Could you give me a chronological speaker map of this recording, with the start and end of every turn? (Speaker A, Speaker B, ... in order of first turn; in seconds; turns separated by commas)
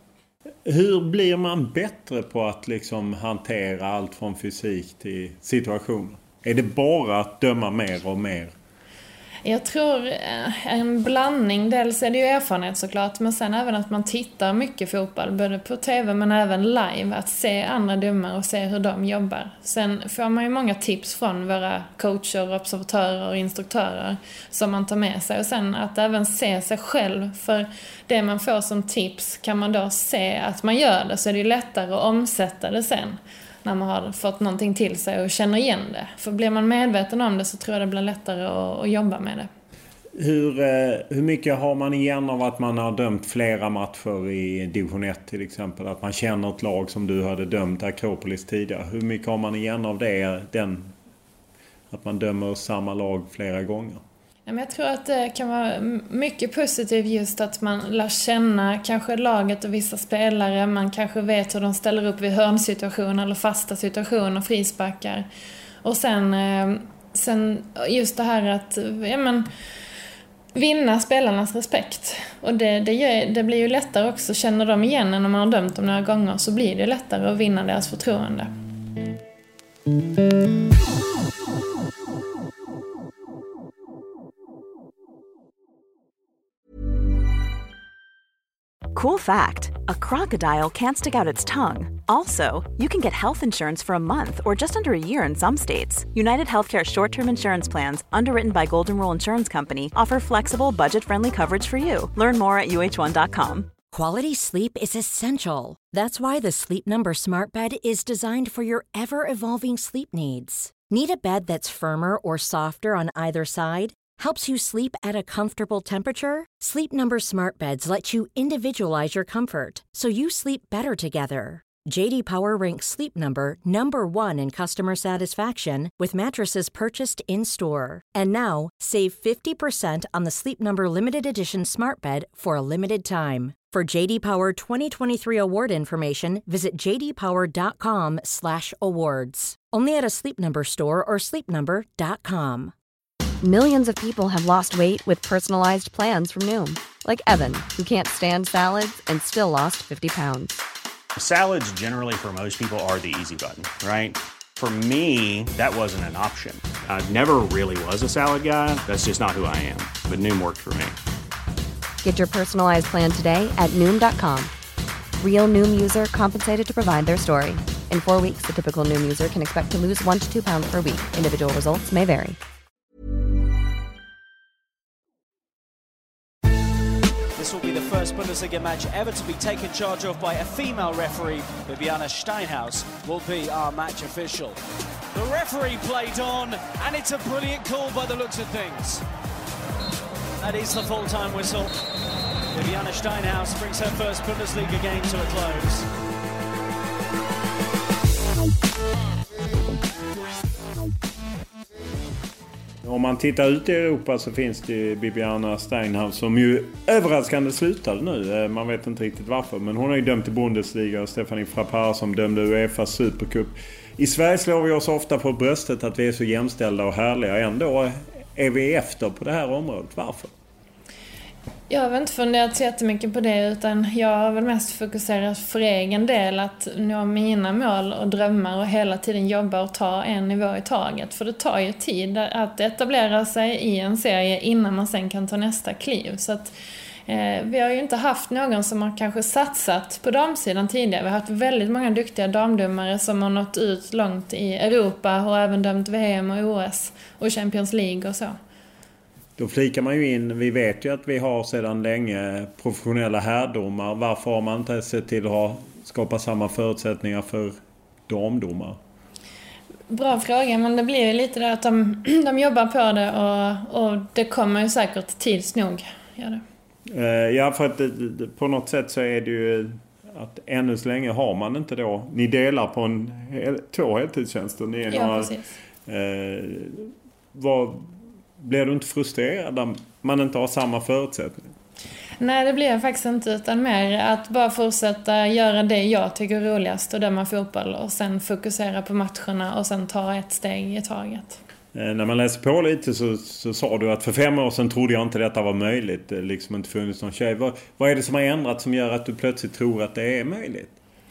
Speaker A: 0.7-8.5, Speaker B: 9.4-39.5, Speaker A: 40.2-50.9, Speaker A: 51.9-54.0, Speaker B: 54.5-65.3, Speaker B: 65.8-69.5, Speaker B: 70.5-78.5, Speaker C: 88.9-103.7, Speaker D: 103.9-142.7, Speaker E: 143.4-150.6, Speaker F: 151.2-161.0, Speaker E: 162.0-164.5, Speaker E: 165.2-172.4, Speaker G: 177.4-184.6, Speaker G: 185.1-189.0, Speaker G: 190.4-191.8, Speaker G: 192.5-195.9, Speaker A: 202.8-220.3, Speaker B: 221.7-236.5, Speaker B: 237.1-248.4, Speaker A: 249.4-257.6, Speaker A: 258.1-258.8, Speaker B: 259.9-266.4, Speaker A: 266.9-275.3, Speaker B: 274.9-275.5, Speaker A: 275.9-281.5, Speaker B: 282.2-291.4, Speaker A: 291.7-300.7